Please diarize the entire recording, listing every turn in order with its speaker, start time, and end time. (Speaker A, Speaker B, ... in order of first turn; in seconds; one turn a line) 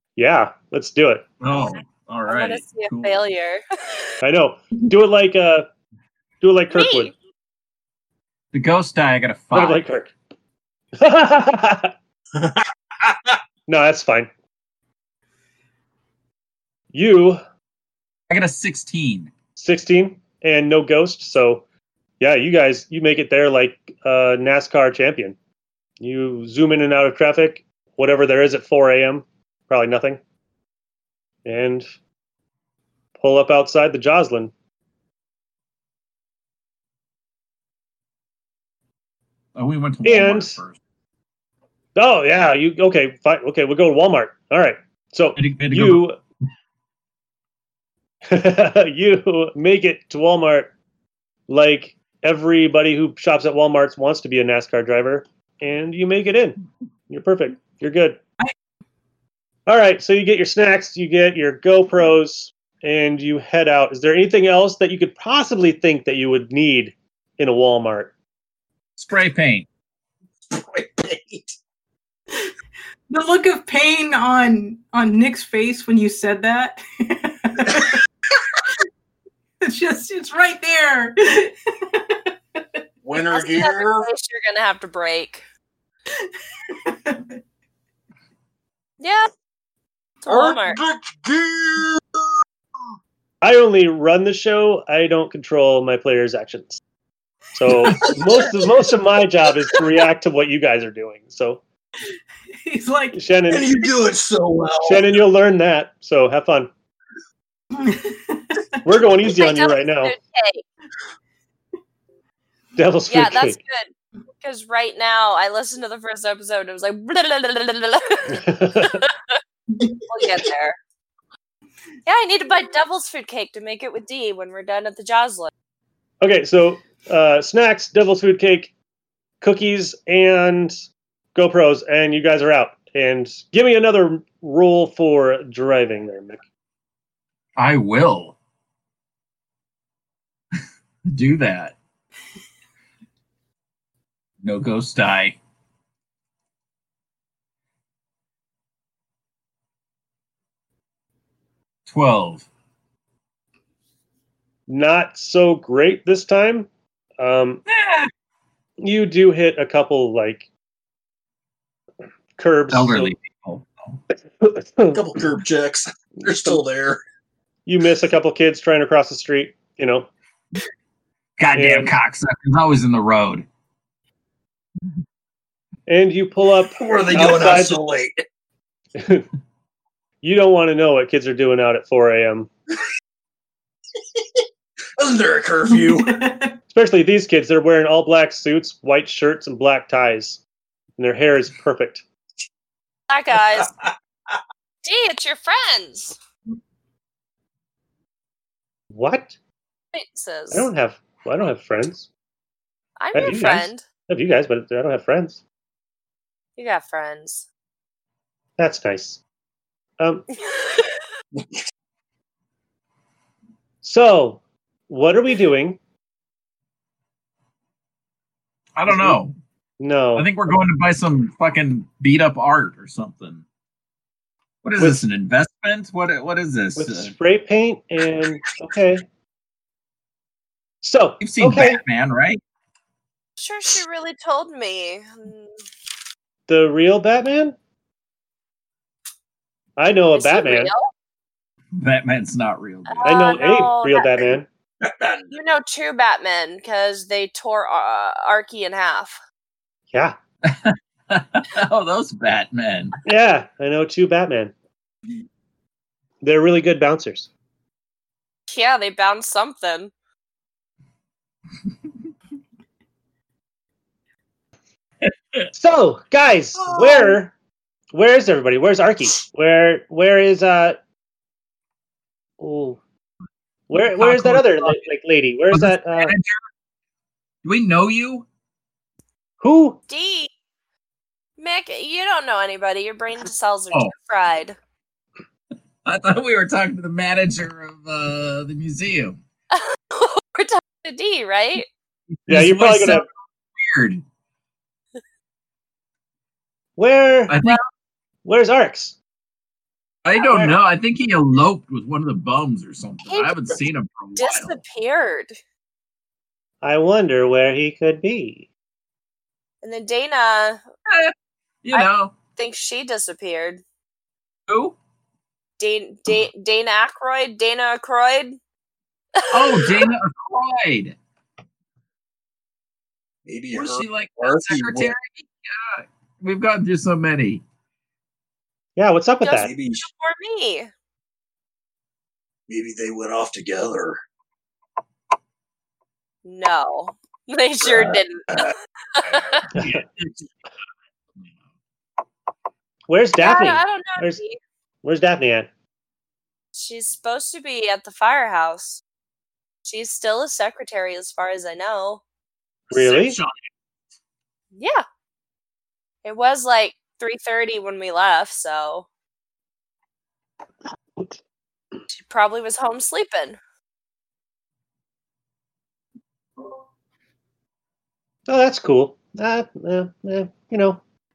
Speaker A: 0.2-1.3
Speaker B: 1.4-3.2
Speaker C: 2.3-4.2
Speaker A: 4.2-5.7
Speaker A: 6.4-7.1
Speaker C: 6.7-7.1
Speaker B: 8.5-9.8
Speaker A: 9.5-10.1
Speaker A: 11.0-11.9
Speaker A: 13.7-14.3
Speaker A: 16.9-17.4
Speaker B: 18.3-19.3
Speaker A: 19.6-21.6
Speaker A: 22.2-25.4
Speaker A: 26.0-30.2
Speaker A: 31.4-31.9
Speaker A: 33.2-34.5
Speaker B: 39.5-40.8
Speaker A: 40.0-40.6
Speaker A: 42.0-46.2
Speaker B: 45.4-46.0
Speaker A: 48.3-50.7
Speaker A: 51.5-56.6
Speaker A: 57.1-58.2
Speaker A: 59.7-68.1
Speaker B: 69.0-69.7
Speaker D: 70.5-71.5
Speaker E: 73.1-78.0
Speaker E: 79.6-82.6
Speaker D: 83.0-84.1
Speaker C: 83.3-85.4
Speaker E: 86.2-87.3
Speaker C: 89.0-89.3
Speaker C: 90.2-90.8
Speaker D: 90.3-92.0
Speaker A: 93.4-96.8
Speaker A: 97.5-101.6
Speaker E: 102.7-103.2
Speaker A: 103.1-103.9
Speaker D: 103.5-105.1
Speaker A: 104.8-106.7
Speaker E: 107.7-108.6
Speaker A: 108.8-110.2
Speaker C: 109.2-110.6
Speaker A: 112.8-113.6
Speaker C: 113.1-119.4
Speaker A: 118.3-119.0
Speaker E: 119.7-120.0
Speaker C: 120.1-120.8
Speaker C: 122.1-125.5
Speaker A: 126.2-128.7
Speaker A: 129.4-130.8
Speaker A: 131.3-136.4
Speaker B: 137.6-138.4
Speaker B: 141.1-141.8
Speaker B: 144.4-145.4
Speaker B: 151.9-152.5
Speaker A: 154.7-157.6
Speaker B: 157.8-158.1
Speaker A: 158.8-160.5
Speaker A: 162.4-163.1
Speaker B: 162.7-164.0
Speaker A: 164.4-165.0
Speaker D: 164.9-167.0
Speaker A: 166.2-166.6
Speaker A: 167.7-170.1
Speaker B: 171.4-173.5
Speaker A: 171.5-171.9
Speaker A: 175.9-177.8
Speaker D: 176.8-178.2
Speaker A: 179.0-179.3
Speaker A: 180.2-182.5
Speaker D: 185.0-186.2
Speaker E: 185.7-186.6
Speaker A: 186.7-190.4
Speaker A: 191.0-192.0
Speaker C: 193.1-193.7
Speaker C: 194.8-196.2
Speaker A: 198.9-199.3
Speaker C: 199.9-200.7
Speaker A: 200.5-202.1
Speaker C: 203.0-203.8
Speaker A: 203.1-205.4
Speaker C: 206.6-207.5
Speaker A: 208.6-209.2
Speaker A: 210.0-210.3
Speaker C: 210.5-210.9
Speaker A: 213.8-215.8
Speaker B: 218.8-219.3
Speaker A: 218.9-219.2
Speaker A: 219.8-220.3
Speaker B: 220.2-223.4
Speaker B: 224.6-227.1
Speaker A: 224.8-225.0
Speaker A: 226.8-229.0
Speaker A: 230.8-231.8
Speaker B: 231.2-232.4
Speaker C: 233.4-235.6
Speaker A: 236.5-237.6
Speaker A: 239.8-240.7
Speaker C: 240.2-240.9
Speaker B: 241.8-243.2
Speaker C: 242.9-244.3
Speaker A: 243.0-244.5
Speaker D: 244.8-245.3
Speaker C: 245.3-249.2
Speaker B: 250.4-253.0
Speaker A: 253.0-254.5
Speaker A: 256.2-257.3
Speaker C: 258.5-259.9
Speaker A: 265.5-267.3
Speaker D: 266.6-267.1
Speaker A: 267.9-270.8
Speaker A: 272.4-272.8
Speaker A: 273.7-276.1
Speaker B: 273.9-274.8
Speaker B: 275.5-276.4
Speaker B: 277.4-278.3
Speaker A: 279.4-279.8
Speaker C: 279.9-280.3
Speaker C: 281.4-284.6
Speaker B: 285.9-289.2
Speaker C: 289.5-291.7
Speaker B: 292.3-294.0
Speaker A: 292.3-293.1
Speaker A: 296.8-297.4
Speaker B: 297.3-297.6
Speaker A: 298.2-299.0
Speaker B: 300.0-304.6
Speaker A: 300.2-300.6
Speaker C: 303.1-303.6
Speaker C: 304.2-305.4
Speaker A: 306.6-308.5
Speaker C: 309.6-310.6
Speaker B: 310.9-312.1
Speaker C: 311.7-313.6
Speaker B: 314.5-314.8
Speaker C: 315.6-318.4
Speaker C: 319.2-319.9
Speaker B: 319.3-321.0
Speaker D: 323.3-324.9
Speaker B: 323.5-327.4
Speaker A: 328.8-329.5
Speaker C: 329.2-330.7
Speaker D: 329.4-329.9
Speaker D: 332.5-334.0
Speaker C: 336.2-339.5
Speaker D: 337.6-338.5
Speaker A: 339.6-339.8
Speaker B: 339.6-340.3
Speaker A: 342.9-344.2
Speaker C: 343.2-344.4
Speaker A: 344.8-345.5
Speaker C: 346.6-348.8
Speaker C: 349.6-352.0
Speaker B: 352.7-353.5
Speaker A: 352.7-353.2
Speaker C: 354.6-354.9
Speaker C: 356.0-358.9
Speaker C: 361.9-363.4
Speaker A: 368.3-370.8